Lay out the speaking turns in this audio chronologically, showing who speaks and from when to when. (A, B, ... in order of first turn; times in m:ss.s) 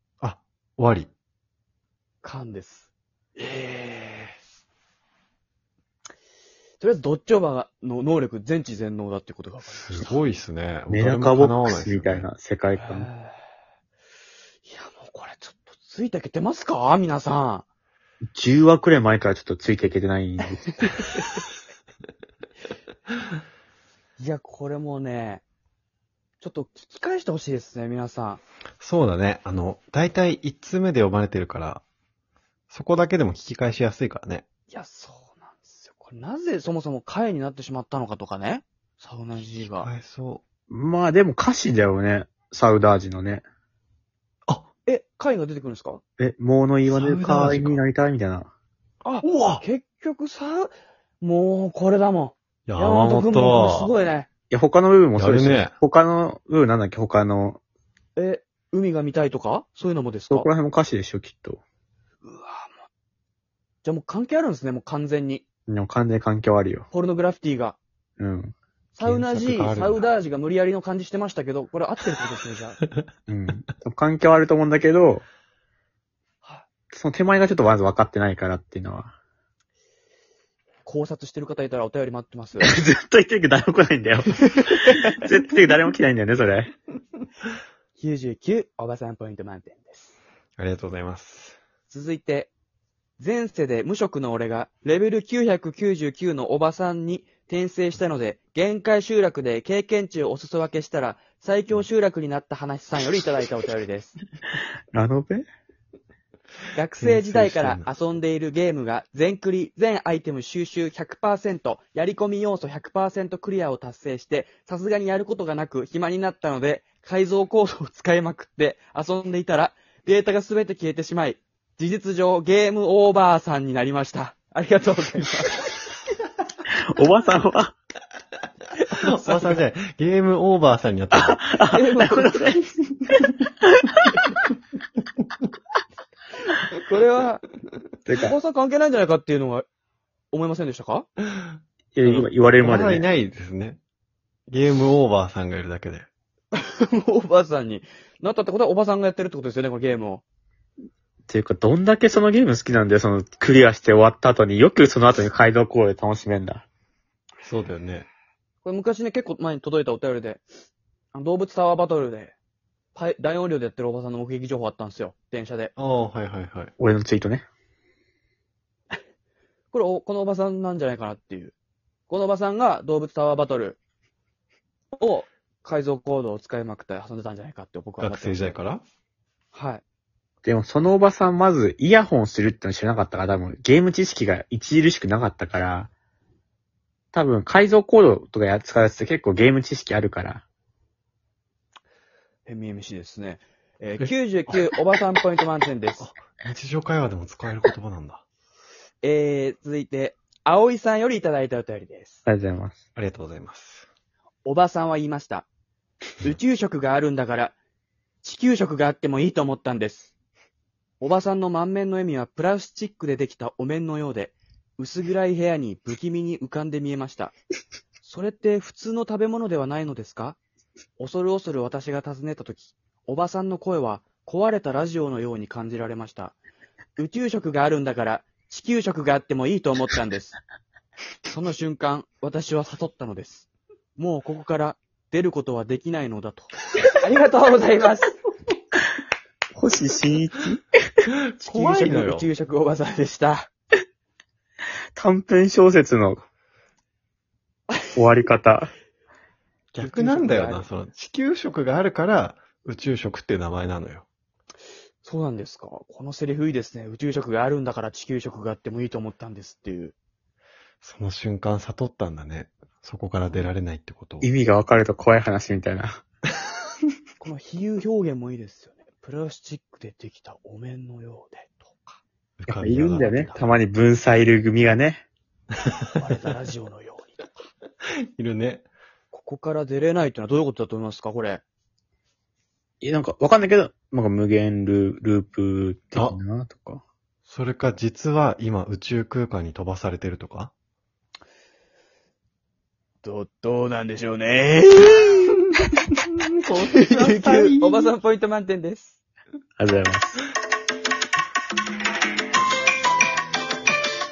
0:00.2-0:01.1 A
0:02.2-0:04.4 B
0:06.8-0:10.2 B
0:09.9-0:12.3 A
0:10.9-0:13.1 C
0:12.8-0:13.4 B
0:14.6-0:17.7 B
0:18.2-0:20.8 C
0:20.8-0:21.2 B
0:24.2-0:25.4 B
0:26.4-0:28.4 B
0:28.8-0:31.8 A
0:32.7-0:34.4 A
0:34.7-0:39.9 B
0:39.6-0:40.4 A
0:40.7-0:43.4 C
0:44.9-0:46.0 B
0:46.2-0:48.5 C
0:46.9-0:47.8 A
0:49.0-0:54.3 B
0:49.2-0:49.6 A
0:52.7-0:53.9 A
0:54.5-0:57.6 C
0:55.2-0:55.8 A
0:58.2-1:00.5 B
1:00.3-1:01.6 C
1:02.2-1:02.8 B
1:03.8-1:05.4 B
1:05.7-1:06.9 C
1:06.9-1:07.8 B
1:08.2-1:08.6 C
1:08.9-1:12.8 B
1:09.0-1:10.1 A
1:13.3-1:15.2 C
1:16.9-1:19.1 C
1:20.8-1:22.7 B
1:22.6-1:26.7 C
1:28.0-1:30.2 B
1:30.6-1:31.6 A
1:31.9-1:32.5 B
1:33.2-1:44.2 B
1:44.9-1:45.4 C
1:46.7-2:05.6 B
1:47.0-1:47.9 A
2:07.0-2:07.8 C
2:08.8-2:09.6 B
2:09.0-2:11.4 A
2:11.2-2:14.2 C
2:11.7-2:12.5 B
2:16.5-2:17.5 B
2:18.1-2:18.3 C
2:18.1-2:19.6 B
2:20.3-2:21.1 B
2:21.9-2:23.1 C
2:22.0-2:23.8 A
2:24.5-2:26.1 A
2:26.5-2:30.2 B
2:31.3-2:36.7 C
2:37.4-2:38.1 A
2:38.6-2:40.4 B
2:41.1-2:42.4 B
2:43.0-2:45.7 B
2:45.8-2:46.7 A
2:46.8-2:47.5 C
2:49.7-2:51.6 B
2:52.1-2:53.8 B
2:55.0-2:58.6 B
2:58.0-2:58.8 A
2:59.5-2:59.8 B
3:00.4-3:05.9 C
3:07.1-3:10.4 C
3:12.5-3:16.1 B
3:14.0-3:14.7 A
3:16.0-3:18.2 A
3:19.0-3:22.2 B
3:22.3-3:22.8 C
3:23.0-3:23.9 A
3:24.4-3:25.5 B
3:26.2-3:27.6 B
3:28.2-3:30.1 B
3:31.0-3:37.4 B
3:38.0-3:40.4 B
3:41.0-3:46.4 B
3:47.0-3:50.4 B
3:51.3-3:58.1 B
3:59.6-4:00.6 C
4:01.4-4:02.3 A
4:01.4-4:03.5 B
4:05.0-4:06.2 C
4:07.7-4:08.0 B
4:08.0-4:08.7 C
4:09.7-4:14.0 A
4:09.8-4:10.7 B
4:15.0-4:20.0 B
4:20.8-4:24.3 A
4:24.2-4:26.0 C
4:27.2-4:32.0 B
4:32.4-4:33.3 A
4:32.5-4:35.0 C
4:32.7-4:33.6 B
4:36.0-4:37.5 B
4:38.2-4:38.7 A
4:39.1-4:41.4 B
4:42.8-4:46.8 C
4:47.2-4:50.5 A
4:53.0-4:55.4 B
4:56.2-4:57.9 A
4:56.6-4:59.0 B
4:59.6-5:00.2 C